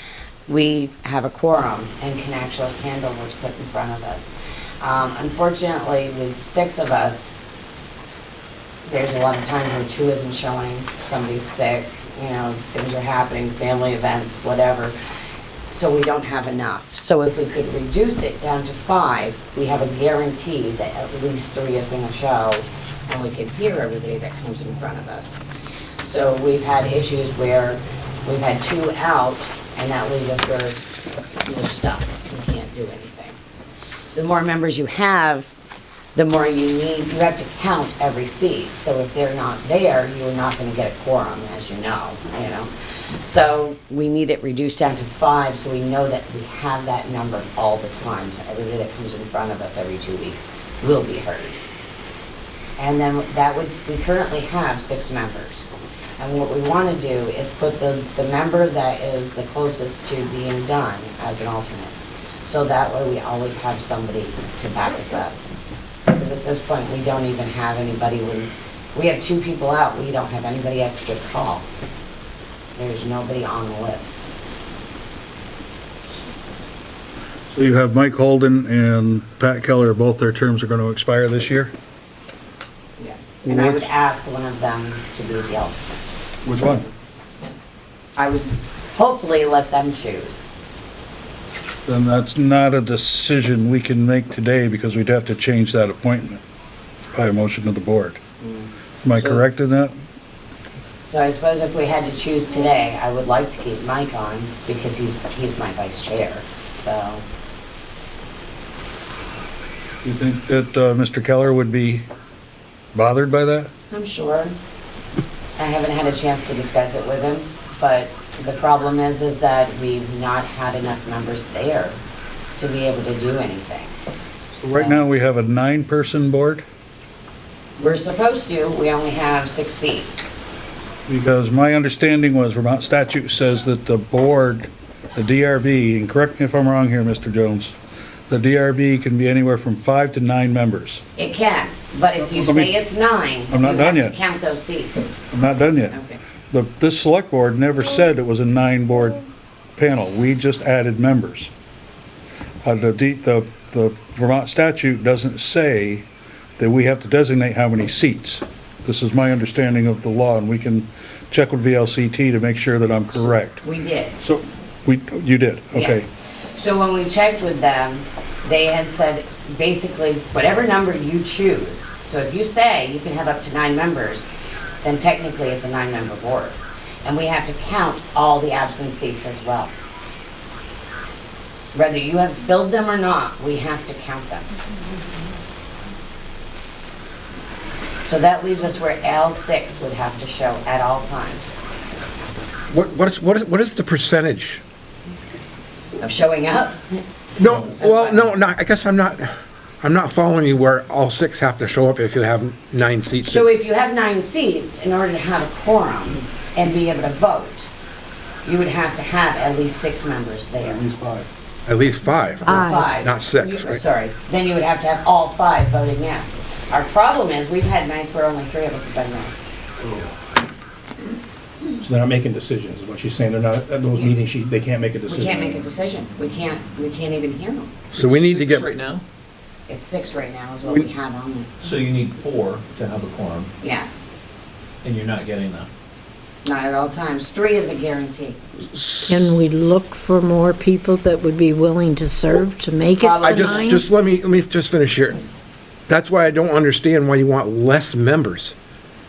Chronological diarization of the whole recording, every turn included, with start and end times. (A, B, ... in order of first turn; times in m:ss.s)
0:00.5-0:07.3 A
0:08.8-0:14.9 A
0:15.7-0:25.4 A
0:26.0-0:30.8 A
0:31.4-0:33.4 A
0:34.1-0:35.6 A
0:36.1-0:51.6 A
0:52.8-1:05.4 A
1:06.1-1:11.6 A
1:12.8-1:14.2 A
1:17.5-1:21.7 B
1:23.0-1:26.0 A
1:23.4-1:23.9 B
1:26.4-1:26.8 B
1:26.6-1:26.8 A
1:28.2-1:30.5 A
1:31.8-1:36.4 B
1:37.1-1:38.2 B
1:38.4-1:39.4 A
1:39.0-1:39.9 B
1:41.0-1:47.2 A
1:50.0-1:52.0 B
1:52.9-1:53.7 B
1:53.9-1:54.6 A
1:55.6-2:02.0 A
2:02.6-2:03.9 A
2:04.6-2:05.0 A
2:04.6-2:06.6 B
2:07.8-2:10.3 A
2:11.1-2:17.8 B
2:18.3-2:21.0 B
2:21.2-2:25.2 A
2:22.2-2:22.7 B
2:23.5-2:24.2 B
2:25.3-2:26.0 B
2:25.9-2:26.2 A
2:26.5-2:29.2 B
2:29.8-2:31.5 B
2:32.6-2:36.1 B
2:36.6-2:43.6 B
2:43.1-2:44.2 A
2:44.2-2:46.1 B
2:45.7-2:54.3 A
2:54.8-2:59.7 A
3:01.7-3:04.6 A
3:08.0-3:11.5 A
3:12.7-3:14.6 C
3:16.0-3:18.2 A
3:17.4-3:23.4 C
3:23.2-3:27.7 A
3:28.4-3:30.8 A
3:30.6-3:31.3 B
3:31.6-3:33.8 C
3:32.4-3:32.9 D
3:32.4-3:39.3 A
3:41.8-3:45.6 E
3:45.1-3:47.7 A
3:47.9-3:48.7 C
3:48.0-3:49.0 F
3:49.7-3:51.5 A
3:51.6-3:53.5 F
3:53.6-3:53.9 A
3:54.8-3:55.7 F
3:56.4-3:58.4 A
3:58.7-3:59.3 C
3:59.0-4:03.8 D
4:03.0-4:03.7 A
4:03.2-4:05.2 C
4:05.9-4:08.6 C